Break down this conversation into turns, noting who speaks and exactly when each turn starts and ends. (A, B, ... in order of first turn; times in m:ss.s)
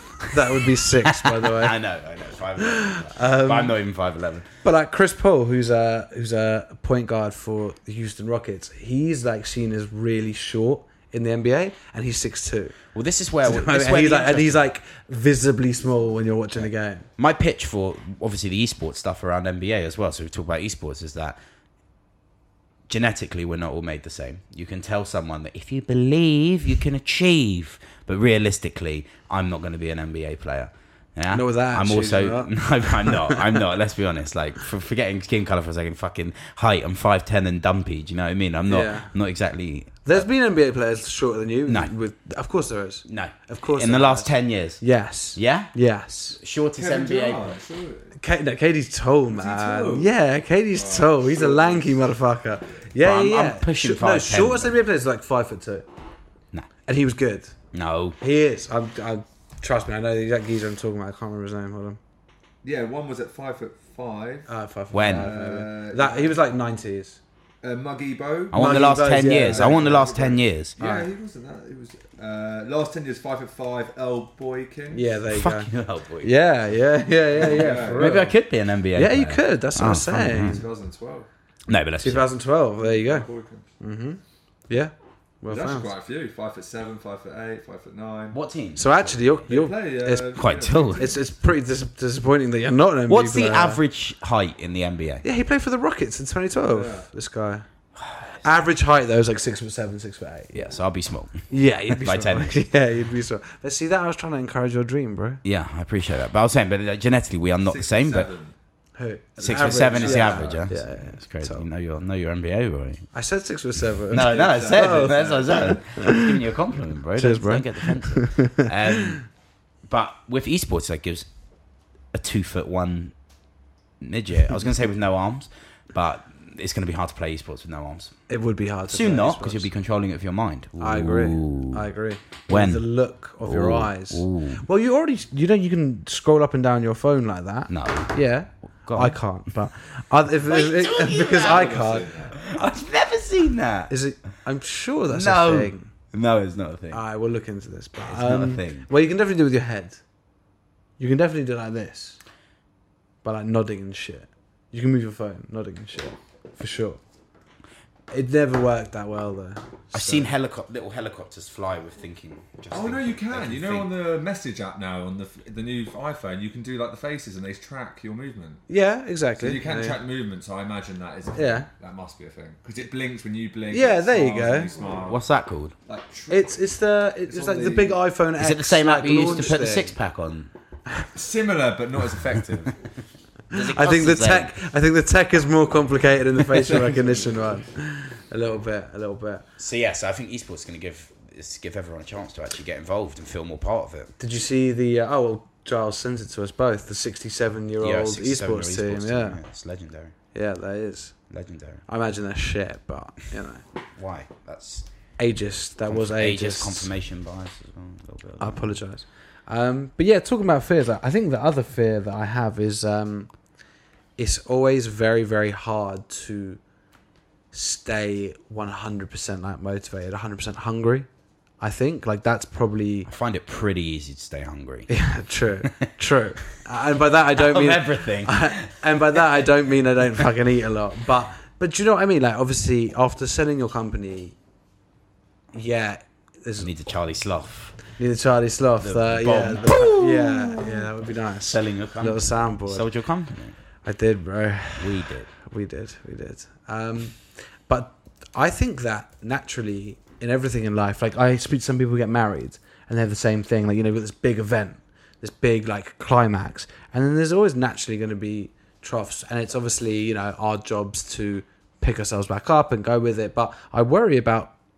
0:00.2-0:04.5 A
0:00.3-0:01.8 B
0:02.6-0:03.8 B
0:04.6-0:12.8 B
0:12.9-0:14.6 A
0:13.4-0:17.0 B
0:17.2-0:21.4 A
0:22.9-0:40.3 A
0:31.3-0:33.6 B
0:38.7-0:39.1 B
0:40.0-0:46.4 B
0:41.7-0:41.9 A
0:43.0-0:44.8 A
0:45.3-0:45.7 A
0:46.4-0:47.5 A
0:46.8-0:48.2 C
0:48.2-0:55.9 B
0:49.3-0:50.1 C
0:50.7-0:52.0 C
0:53.0-0:54.7 A
0:56.8-0:57.5 B
0:57.7-0:58.2 A
0:58.2-1:02.0 B
1:02.6-1:04.5 C
1:04.5-1:07.2 B
1:04.9-1:05.3 A
1:05.1-1:06.4 C
1:07.6-1:15.1 C
1:08.5-1:10.8 A
1:08.5-1:10.0 B
1:10.8-1:11.1 B
1:14.9-1:15.7 B
1:15.3-1:16.3 A
1:16.2-1:18.3 B
1:17.4-1:18.2 C
1:18.0-1:20.6 A
1:18.9-1:20.6 B
1:20.4-1:21.3 C
1:21.7-1:22.3 A
1:22.0-1:23.3 B
1:22.8-1:23.7 C
1:23.8-1:25.9 B
1:25.5-1:28.4 C
1:28.3-1:29.4 A
1:28.8-1:33.8 B
1:29.5-1:31.2 C
1:30.4-1:31.1 A
1:33.1-1:35.2 A
1:35.2-1:37.6 B
1:36.7-1:37.1 C
1:38.0-1:38.4 A
1:38.4-1:40.6 B
1:40.5-1:42.6 A
1:41.5-1:45.4 B
1:45.4-1:48.3 A
1:47.6-1:48.5 C
1:49.0-1:51.6 B
1:49.4-1:53.1 A
1:49.5-1:50.7 C
1:53.1-1:56.4 B
1:54.1-1:59.2 A
1:54.1-1:55.8 C
1:57.2-1:59.2 B
1:59.9-2:01.3 A
2:02.1-2:03.1 A
2:04.0-2:08.2 A
2:08.3-2:09.7 B
2:08.9-2:11.8 A
2:10.8-2:22.2 B
2:12.5-2:12.8 A
2:13.4-2:14.6 A
2:17.7-2:18.2 A
2:18.8-2:19.2 A
2:20.4-2:21.8 A
2:21.3-2:22.5 C
2:22.4-2:23.9 A
2:23.9-2:25.9 B
2:25.1-2:27.0 A
2:26.9-2:30.0 B
2:28.0-2:28.9 A
2:31.0-2:32.2 B
2:33.2-2:37.0 B
2:38.1-2:40.3 B
2:39.9-2:43.9 A
2:42.7-2:48.6 C
2:48.7-2:50.0 B
2:49.4-2:55.2 C
2:51.3-2:51.7 B
2:53.7-2:54.7 B
2:55.0-2:55.7 A
2:55.9-2:56.7 C
2:56.3-2:59.9 B
2:57.3-2:58.0 C
2:58.4-3:00.5 A
3:01.1-3:02.8 C
3:03.5-3:04.5 A
3:03.5-3:09.4 B
3:06.6-3:07.5 C
3:09.6-3:14.1 A
3:14.2-3:19.4 B
3:17.8-3:20.1 A
3:20.3-3:21.2 B
3:21.3-3:21.8 A
3:21.9-3:23.6 B
3:24.0-3:24.9 A
3:25.2-3:26.9 B
3:25.9-3:28.8 A
3:28.4-3:33.3 B
3:34.2-3:36.6 B
3:37.5-3:41.1 B
3:41.6-3:43.1 B
3:43.0-3:44.9 A
3:44.9-3:54.3 B
3:47.3-3:49.4 A
3:55.5-3:56.7 B
3:56.6-3:57.8 A
3:58.0-4:02.8 B
3:58.8-4:00.9 A
4:01.4-4:03.6 A
4:03.8-4:24.5 B
4:04.8-4:05.3 A